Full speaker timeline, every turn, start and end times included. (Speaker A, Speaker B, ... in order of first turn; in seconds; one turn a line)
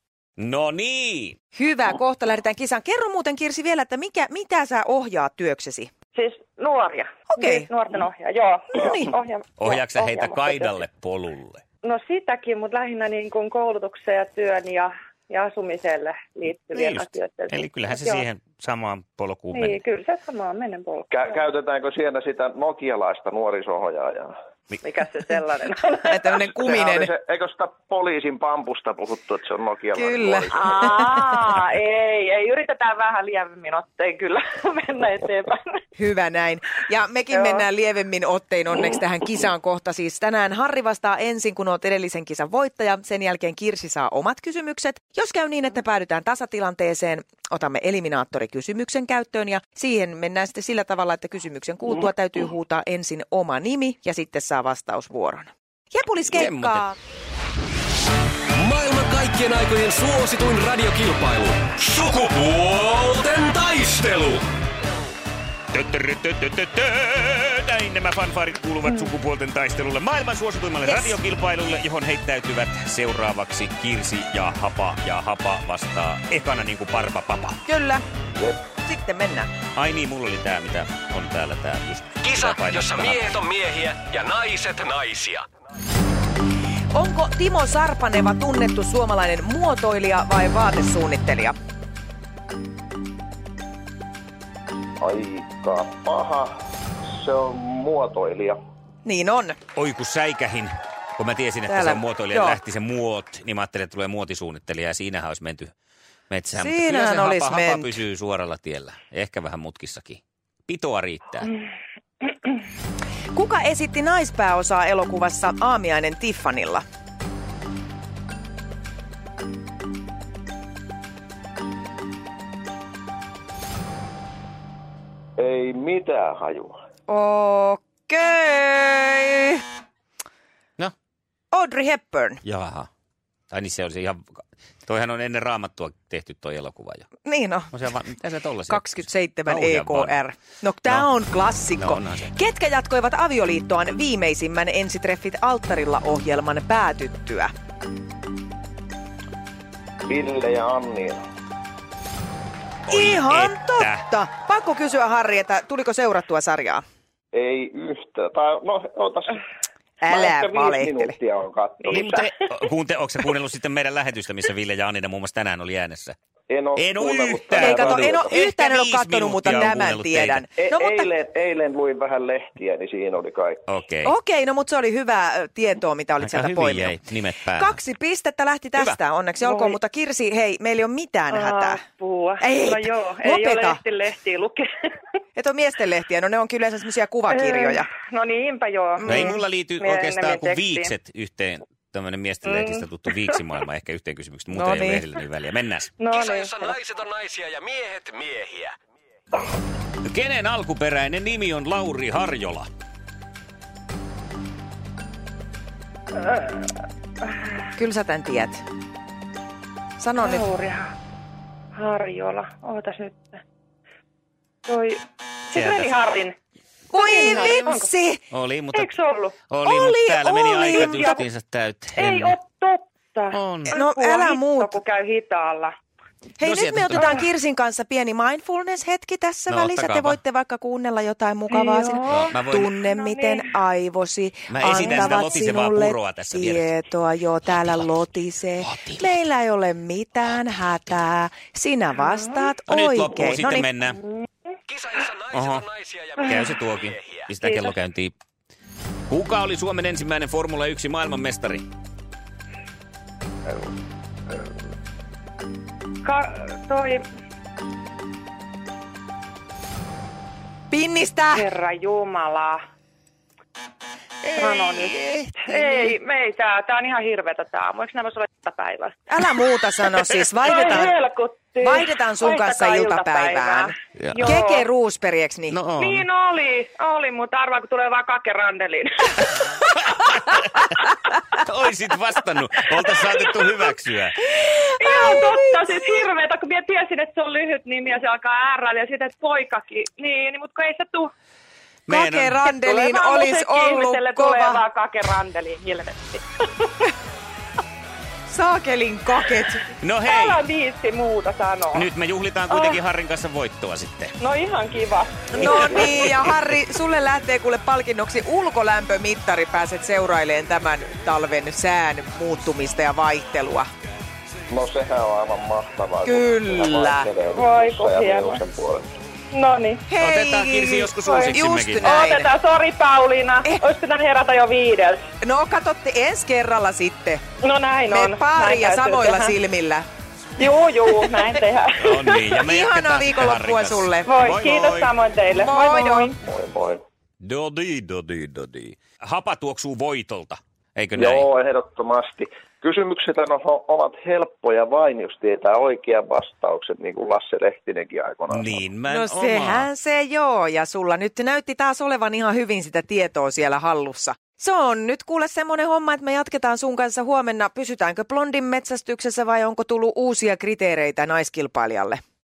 Speaker A: 0.4-1.4
Speaker B: 1.6-5.9
Speaker C: 6.1-10.8
Speaker B: 7.3-7.7
Speaker B: 8.7-9.1
Speaker A: 9.6-11.6
Speaker C: 11.8-18.3
Speaker A: 16.7-19.8
Speaker C: 19.5-21.4
Speaker D: 21.1-24.3
Speaker C: 24.8-26.4
Speaker B: 26.1-27.1
Speaker D: 26.6-30.9
Speaker B: 29.9-31.1
Speaker C: 30.5-35.8
Speaker B: 36.0-56.9
Speaker A: 56.3-56.9
Speaker E: 58.5-64.5
Speaker A: 65.7-77.6
Speaker B: 70.9-71.2
Speaker B: 77.7-78.0
Speaker D: 78.4-78.6
Speaker B: 78.8-79.5
Speaker A: 79.8-83.4
Speaker E: 82.2-85.5
Speaker B: 86.9-91.6
Speaker D: 95.0-98.6
Speaker B: 99.0-99.6
Speaker A: 99.8-105.7
Speaker B: 101.7-102.6
Speaker A: 106.3-111.5
Speaker B: 106.6-107.9
Speaker B: 113.3-116.8
Speaker D: 125.4-126.8
Speaker B: 127.1-129.6
Speaker B: 131.5-132.4
Speaker A: 132.4-132.9
Speaker A: 133.5-137.1
Speaker B: 137.2-137.7
Speaker A: 137.7-140.1
Speaker B: 138.7-147.5
Speaker A: 141.8-142.3
Speaker D: 150.1-151.2
Speaker A: 152.9-154.0
Speaker B: 152.9-156.8
Speaker D: 157.3-159.4
Speaker B: 160.0-161.2
Speaker D: 160.1-162.2
Speaker C: 161.8-162.3
Speaker A: 161.9-166.2
Speaker D: 166.5-168.3
Speaker A: 166.8-170.4
Speaker B: 167.6-171.1
Speaker D: 170.6-173.6
Speaker A: 173.7-174.1
Speaker B: 174.1-177.0
Speaker A: 176.2-177.8
Speaker B: 177.6-181.8
Speaker C: 179.4-179.8
Speaker C: 181.3-184.9
Speaker B: 182.4-183.8
Speaker B: 185.4-187.9
Speaker C: 187.3-190.9
Speaker B: 189.0-189.4
Speaker A: 189.1-195.9
Speaker C: 192.4-192.9
Speaker B: 194.5-195.1
Speaker C: 196.0-196.8
Speaker E: 196.1-198.8
Speaker A: 200.1-202.7
Speaker C: 206.2-206.7
Speaker B: 207.8-208.6
Speaker B: 210.0-210.4
Speaker C: 210.2-210.9
Speaker C: 211.8-213.4
Speaker C: 214.7-216.4
Speaker A: 215.5-215.9
Speaker B: 216.9-218.2
Speaker C: 216.9-217.9
Speaker A: 217.3-217.6
Speaker A: 218.3-218.9
Speaker C: 218.7-219.4
Speaker A: 219.5-222.4
Speaker B: 219.6-221.2
Speaker C: 220.7-221.2
Speaker C: 222.0-225.8
Speaker A: 223.3-223.7
Speaker B: 223.7-224.8
Speaker B: 226.4-243.7
Speaker A: 226.4-227.2
Speaker C: 227.0-227.2
Speaker A: 229.5-230.2
Speaker C: 231.5-233.5
Speaker A: 232.1-232.7
Speaker A: 234.5-236.7
Speaker C: 234.8-235.2
Speaker A: 238.6-239.1
Speaker C: 242.1-242.5
Speaker A: 242.7-244.0
Speaker C: 244.0-244.3
Speaker E: 244.7-247.3
Speaker A: 245.3-245.7
Speaker A: 246.2-248.1
Speaker C: 247.4-247.7
Speaker A: 249.1-251.7
Speaker C: 256.0-257.0
Speaker B: 260.7-261.5
Speaker C: 261.3-262.6
Speaker A: 264.2-265.5
Speaker C: 264.4-269.0
Speaker B: 269.1-270.9
Speaker C: 270.4-274.7
Speaker B: 271.6-275.6
Speaker A: 274.0-274.3
Speaker A: 275.5-276.1
Speaker C: 275.8-279.3
Speaker A: 279.8-280.8
Speaker A: 281.4-284.2
Speaker B: 284.3-285.9
Speaker C: 284.7-291.1
Speaker A: 291.9-292.4
Speaker B: 291.9-294.6
Speaker C: 292.5-296.9
Speaker B: 298.3-299.6
Speaker A: 299.8-300.4
Speaker C: 300.1-301.9
Speaker A: 301.7-304.2
Speaker C: 302.5-302.8
Speaker C: 304.2-306.0
Speaker B: 305.3-313.7
Speaker A: 305.4-306.1
Speaker D: 314.5-318.9
Speaker B: 316.1-317.1
Speaker C: 317.3-318.4
Speaker C: 319.3-319.9
Speaker B: 319.9-322.3
Speaker A: 320.0-322.1
Speaker C: 321.0-325.1
Speaker B: 325.2-327.2
Speaker C: 327.4-329.4
Speaker B: 327.9-329.9
Speaker C: 330.4-332.3
Speaker A: 331.8-335.0
Speaker B: 332.4-334.1
Speaker C: 334.1-336.2
Speaker B: 335.3-336.1
Speaker D: 336.2-336.8
Speaker A: 337.2-341.3
Speaker D: 341.0-348.6
Speaker A: 348.3-349.7
Speaker B: 348.9-362.0